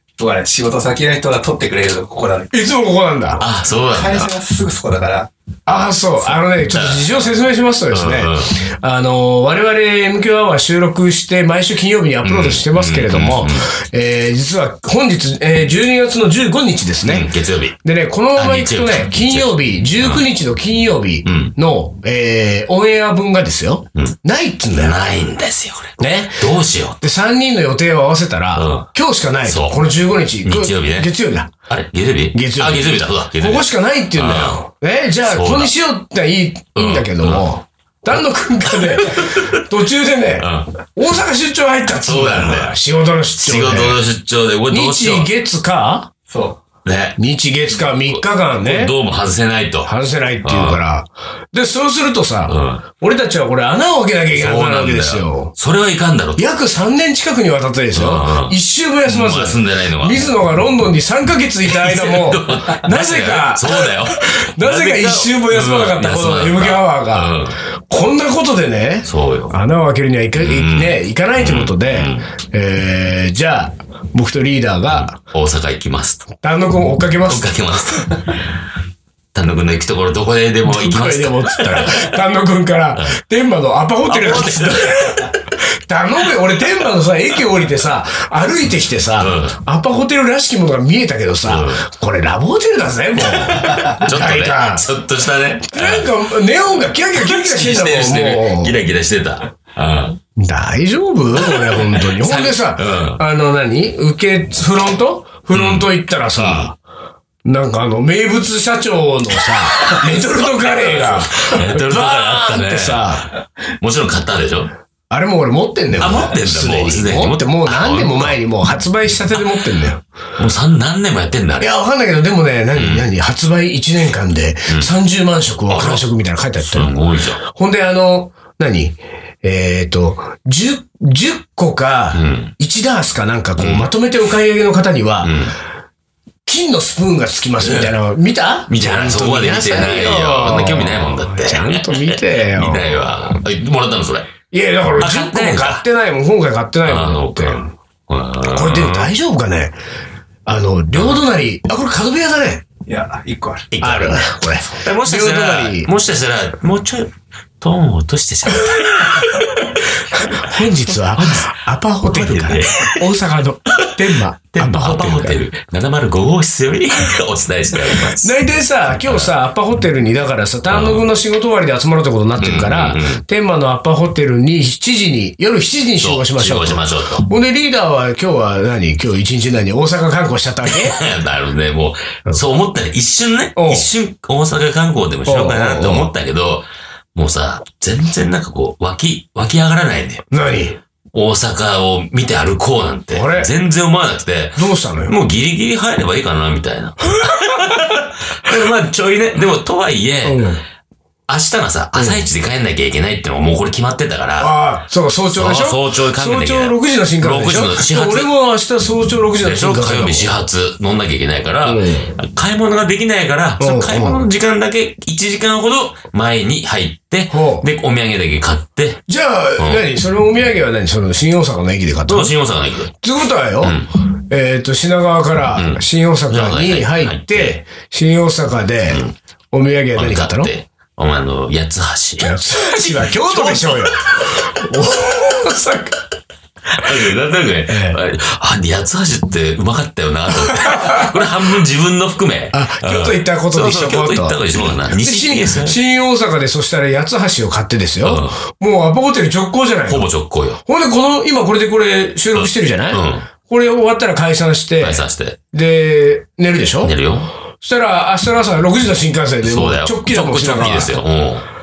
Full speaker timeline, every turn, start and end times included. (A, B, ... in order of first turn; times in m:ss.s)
0:00.2-0:02.5 A
0:02.5-0:03.4 B
0:03.4-0:04.3 C
0:03.8-0:05.3 A
0:05.7-0:17.3 B
0:06.7-0:07.3 C
0:07.9-0:08.6 C
0:12.2-0:13.7 C
0:17.0-0:17.8 C
0:17.8-0:25.0 B
0:18.4-0:20.2 C
0:21.2-0:21.5 C
0:24.7-0:27.0 C
0:26.0-0:31.5 B
0:28.6-0:28.9 C
0:29.5-0:29.9 C
0:30.4-0:31.1 C
0:31.7-0:34.6 C
0:32.3-0:44.0 B
0:35.3-0:35.7 C
0:36.8-0:37.5 C
0:38.7-0:39.6 C
0:40.4-0:40.7 C
0:42.0-0:42.8 C
0:43.4-0:45.3 C
0:44.7-0:46.1 B
0:46.3-0:46.6 A
0:46.8-0:47.2 C
0:47.2-0:49.0 B
0:48.0-0:49.9 C
0:49.8-0:55.5 B
0:50.4-0:50.8 C
0:52.5-0:52.8 C
0:54.3-0:56.4 C
0:56.4-1:15.2 B
0:57.9-1:00.3 C
1:01.6-1:07.6 C
1:09.1-1:09.6 C
1:10.4-1:12.3 C
1:14.9-1:16.2 C
1:16.4-1:17.6 B
1:17.3-1:18.4 C
1:19.3-1:22.1 C
1:20.6-1:25.3 B
1:24.1-1:25.3 C
1:25.9-1:34.9 B
1:29.2-1:29.6 C
1:31.4-1:31.9 C
1:33.2-1:36.1 C
1:35.7-1:38.8 B
1:37.1-1:40.2 C
1:40.4-1:46.8 B
1:41.4-1:43.2 C
1:45.5-1:46.7 C
1:47.4-1:53.3 B
1:49.9-1:53.3 C
1:53.8-1:54.7 C
1:55.1-2:00.0 B
1:56.0-1:58.4 C
2:00.4-2:01.7 C
2:01.6-2:15.5 B
2:02.7-2:03.1 C
2:05.7-2:06.0 C
2:06.6-2:07.4 C
2:12.1-2:12.5 C
2:13.6-2:13.9 C
2:15.2-2:15.6 C
2:16.5-2:23.0 B
2:17.6-2:17.9 C
2:18.7-2:24.3 C
2:24.5-2:27.8 B
2:25.0-2:25.8 C
2:26.8-2:29.1 C
2:28.4-2:29.8 B
2:30.5-2:32.6 B
2:30.9-2:31.2 C
2:32.9-2:33.7 A
2:33.7-2:40.5 C
2:33.8-2:35.9 B
2:38.7-2:39.3 B
2:40.1-2:45.4 B
2:41.1-2:41.5 C
2:42.1-2:43.1 C
2:44.5-2:48.4 C
2:48.2-3:01.0 B
2:48.9-2:49.3 C
2:50.7-2:51.1 C
2:52.4-2:53.2 C
2:56.0-2:57.2 C
3:00.7-3:10.2 C
3:03.6-3:03.9 B
3:05.3-3:06.1 B
3:10.3-3:10.8 B
3:11.1-3:20.4 C
3:13.1-3:13.5 B
3:14.6-3:15.2 B
3:17.2-3:17.7 B
3:20.2-3:20.6 B
3:21.3-3:24.5 C
3:22.0-3:22.2 B
3:24.4-3:30.3 B
3:25.3-3:28.3 C
3:29.4-3:39.0 C
3:31.6-3:32.2 B
3:33.6-3:34.2 B
3:37.3-3:37.7 B
3:39.1-3:42.3 B
3:39.6-3:39.8 C
3:42.1-3:42.9 C
3:42.9-3:50.5 B
3:43.6-3:43.9 C
3:45.5-3:47.6 C
3:48.9-3:49.2 C
3:50.0-3:54.3 C
3:52.2-3:56.0 B
3:56.8-4:05.8 C
3:57.7-3:58.0 B
4:00.6-4:01.1 B
4:02.5-4:10.1 B
4:08.0-4:08.4 C
4:09.9-4:10.6 C
4:10.6-4:17.0 B
4:12.4-4:13.3 C
4:14.8-4:15.4 C
4:16.8-4:17.3 C
4:17.6-4:21.0 B
4:19.4-4:21.5 C